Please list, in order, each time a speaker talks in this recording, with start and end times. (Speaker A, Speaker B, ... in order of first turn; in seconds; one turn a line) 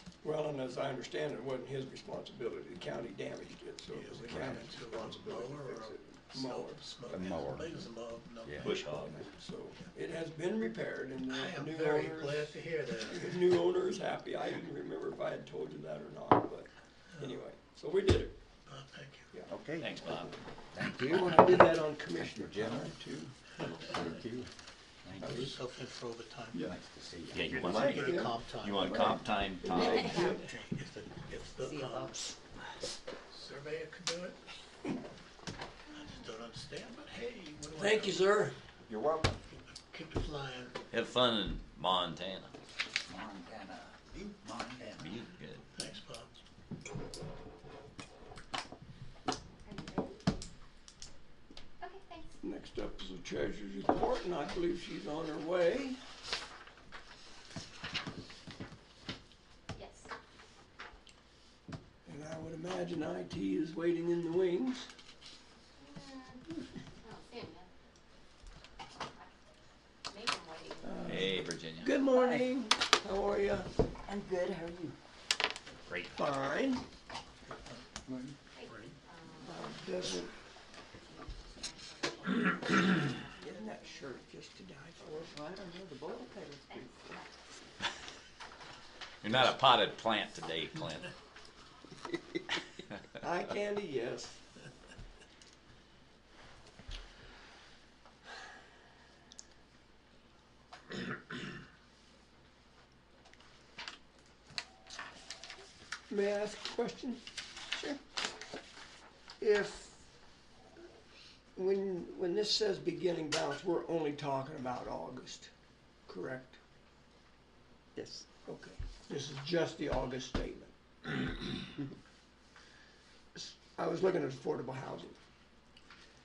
Speaker A: 0.2-6.8
Speaker B: 3.9-9.1
Speaker C: 4.3-4.6
Speaker C: 7.1-7.7
Speaker C: 8.4-9.1
Speaker D: 8.6-9.2
Speaker A: 8.8-18.4
Speaker B: 11.3-13.6
Speaker B: 17.1-17.4
Speaker B: 18.6-19.3
Speaker C: 19.5-19.9
Speaker D: 19.8-20.4
Speaker C: 20.7-25.6
Speaker A: 21.0-23.3
Speaker B: 25.2-26.7
Speaker C: 26.6-27.8
Speaker D: 27.3-30.4
Speaker B: 27.4-29.1
Speaker A: 27.5-28.3
Speaker A: 28.9-30.5
Speaker E: 29.8-30.3
Speaker B: 29.9-32.2
Speaker F: 31.6-32.3
Speaker B: 33.3-34.4
Speaker B: 35.9-38.3
Speaker A: 37.7-38.5
Speaker C: 38.9-39.4
Speaker B: 39.5-40.8
Speaker D: 40.9-42.6
Speaker C: 43.0-45.3
Speaker D: 45.0-45.6
Speaker B: 45.7-46.3
Speaker E: 49.6-50.3
Speaker E: 51.8-52.4
Speaker A: 52.4-56.0
Speaker E: 59.7-60.1
Speaker A: 62.0-64.9
Speaker E: 65.8-66.4
Speaker E: 67.0-67.7
Speaker E: 70.1-71.0
Speaker A: 70.8-73.7
Speaker D: 71.0-72.0
Speaker F: 72.1-72.4
Speaker F: 74.0-75.0
Speaker D: 75.9-76.3
Speaker A: 76.1-76.8
Speaker F: 78.1-78.3
Speaker E: 78.5-79.8
Speaker A: 79.4-80.3
Speaker E: 80.9-84.3
Speaker A: 83.4-85.4
Speaker F: 85.0-87.3
Speaker E: 86.7-87.4
Speaker D: 89.2-91.1
Speaker A: 93.1-94.4
Speaker A: 106.1-108.0
Speaker A: 109.4-110.0
Speaker A: 111.5-115.5
Speaker A: 116.1-116.6
Speaker F: 118.0-118.2
Speaker A: 118.4-121.6
Speaker A: 123.3-125.2